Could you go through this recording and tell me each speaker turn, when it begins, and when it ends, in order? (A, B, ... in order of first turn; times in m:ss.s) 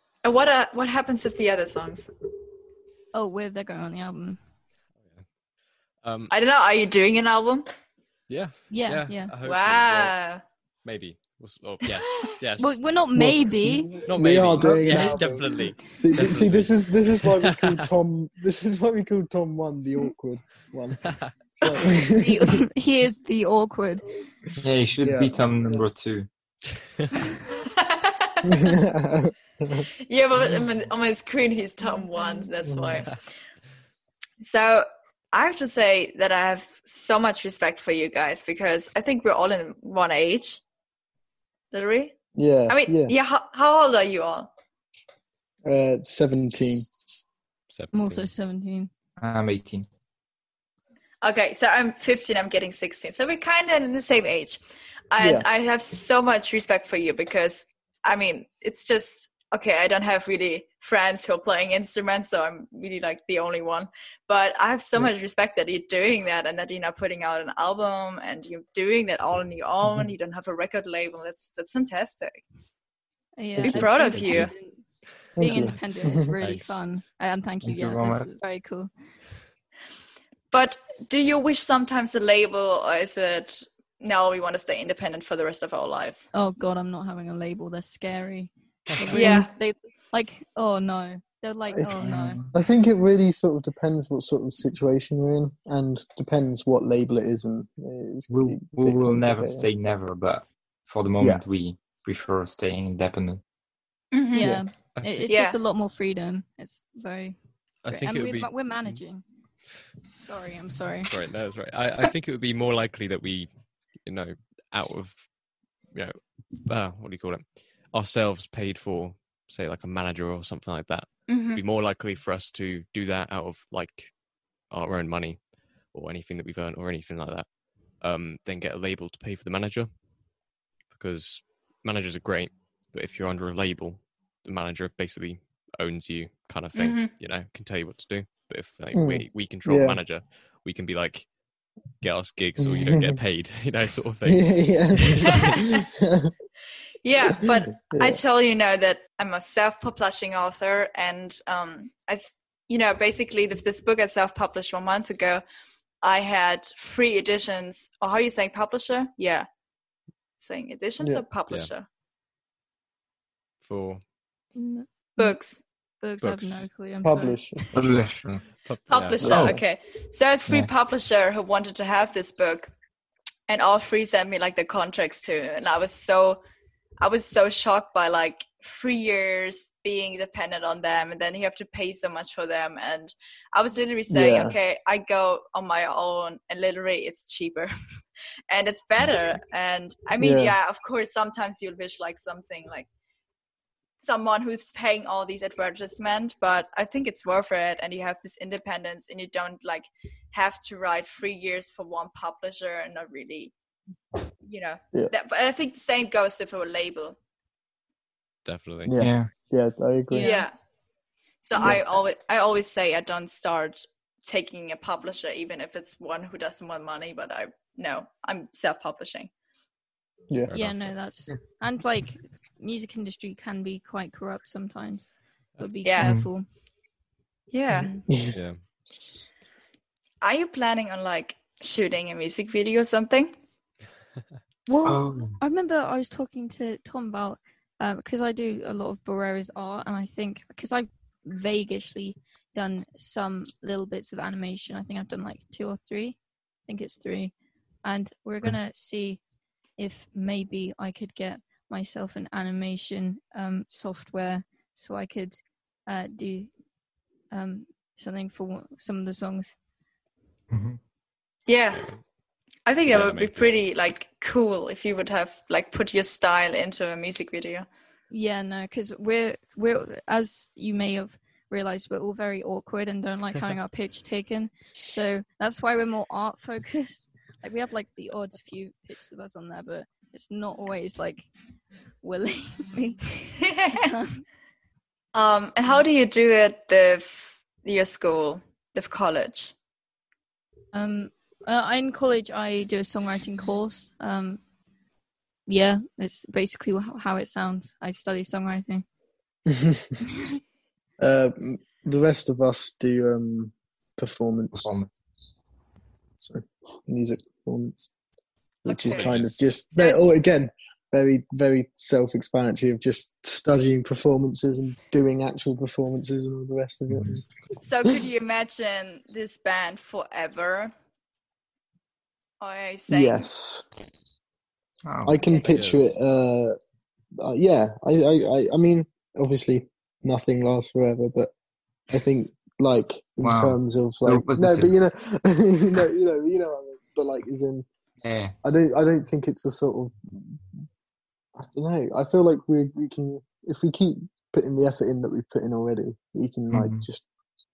0:00.3-0:02.0 A
0:03.1-0:04.4 B
0:06.0-0:06.3 C
0:06.3-0:07.6 A
0:08.3-0:10.2 C
0:08.7-0:09.3 B
0:09.5-0:10.3 A
0:10.8-0:12.8 C
0:12.6-0:14.0 B
0:13.2-0:22.6 D
0:14.0-0:17.9 C
0:22.0-0:24.1 B
0:24.6-0:26.3 E
0:25.0-0:25.8 D
0:28.4-0:29.9 D
0:30.1-0:33.1 A
0:32.1-0:32.5 B
0:32.7-0:33.0 D
0:34.5-0:34.8 A
0:35.4-0:40.5 A
0:41.7-0:42.1 A
0:42.4-0:43.2 D
0:42.7-0:44.5 A
0:45.7-0:46.9 D
0:47.7-0:48.3 C
0:47.9-0:48.9 B
0:49.2-0:49.9 E
0:51.2-0:54.6 A
0:55.1-0:57.6 A
0:55.2-0:55.5 D
0:58.1-1:12.3 A
1:13.4-1:14.8 B
1:13.6-1:13.9 D
1:13.7-1:14.5 A
1:15.4-1:16.3 D
1:15.4-1:18.9 B
1:16.4-1:16.8 C
1:17.6-1:18.3 E
1:20.6-1:23.5 A
1:24.1-1:26.2 A
1:26.3-1:32.4 B
1:28.9-1:29.3 C
1:29.2-1:29.4 A
1:31.7-1:39.7 D
1:32.0-1:32.5 E
1:38.3-1:43.4 E
1:44.3-1:47.4 B
1:44.4-1:44.6 D
1:45.0-1:45.3 C
1:47.8-1:49.0 C
1:47.9-1:49.2 B
1:50.2-1:51.1 B
1:51.1-1:53.5 C
1:54.0-1:55.3 C
1:55.9-2:04.2 C
2:04.7-2:10.0 C
2:10.9-2:21.3 C
2:18.9-2:20.0 D
2:22.0-2:25.8 C
2:22.6-2:23.2 D
2:24.2-2:26.3 D
2:27.3-2:35.4 A
2:27.4-2:28.2 D
2:36.0-2:39.4 A
2:40.4-2:41.8 A
2:41.0-2:41.2 D
2:43.6-2:44.0 C
2:44.6-2:45.4 B
2:45.2-2:45.5 A
2:46.0-2:47.4 B
2:46.2-2:46.7 C
2:47.0-2:47.7 D
2:47.7-2:48.4 E
2:48.6-2:49.5 C
2:48.9-2:52.6 A
2:49.2-2:49.6 D
2:49.2-2:49.6 E
2:53.5-2:56.4 A
2:57.0-3:07.7 A
3:04.1-3:04.6 D
3:08.5-3:12.9 A
3:10.2-3:10.6 D
3:14.0-3:23.5 A
3:24.5-3:27.1 A
3:28.4-3:29.0 C
3:28.9-3:30.4 D
3:29.0-3:29.3 E
3:30.1-3:30.5 B
3:30.2-3:30.5 A
3:31.5-3:39.3 A
3:31.6-3:31.8 D
3:40.5-3:41.0 C
3:40.5-3:46.5 B
3:45.9-3:46.1 A
3:46.0-3:46.3 E
3:47.5-3:47.9 A
3:47.8-3:48.0 B
3:48.1-3:48.4 D
3:48.3-3:48.6 C
3:50.2-3:53.3 A
3:54.7-4:07.3 B
3:54.8-3:55.4 E
4:07.8-4:09.2 B
4:09.8-4:16.5 B
4:17.3-4:19.6 B
4:20.5-4:20.8 E
4:21.5-4:21.8 A
4:22.7-4:27.6 A
4:22.9-4:23.6 C
4:28.1-4:41.3 B
4:42.0-4:43.2 B
4:43.7-4:44.2 B
4:45.2-4:49.5 A
4:50.7-4:54.4 B
4:55.5-4:58.8 B
4:59.5-5:00.0 D
5:01.0-5:04.7 D
5:04.5-5:04.9 E
5:06.2-5:07.9 D
5:08.6-5:17.2 D
5:08.7-5:09.2 A
5:08.9-5:09.4 C
5:09.7-5:10.1 A
5:17.7-5:20.7 A
5:22.4-5:23.3 A
5:22.9-5:23.6 D
5:24.9-5:25.2 E
5:25.0-5:26.6 D
5:25.5-5:25.8 C
5:27.2-5:31.3 D
5:31.9-5:37.7 D
5:33.2-5:34.7 E
5:38.0-5:38.3 E
5:38.4-5:40.6 D
5:41.4-5:47.1 D
5:46.5-5:46.9 E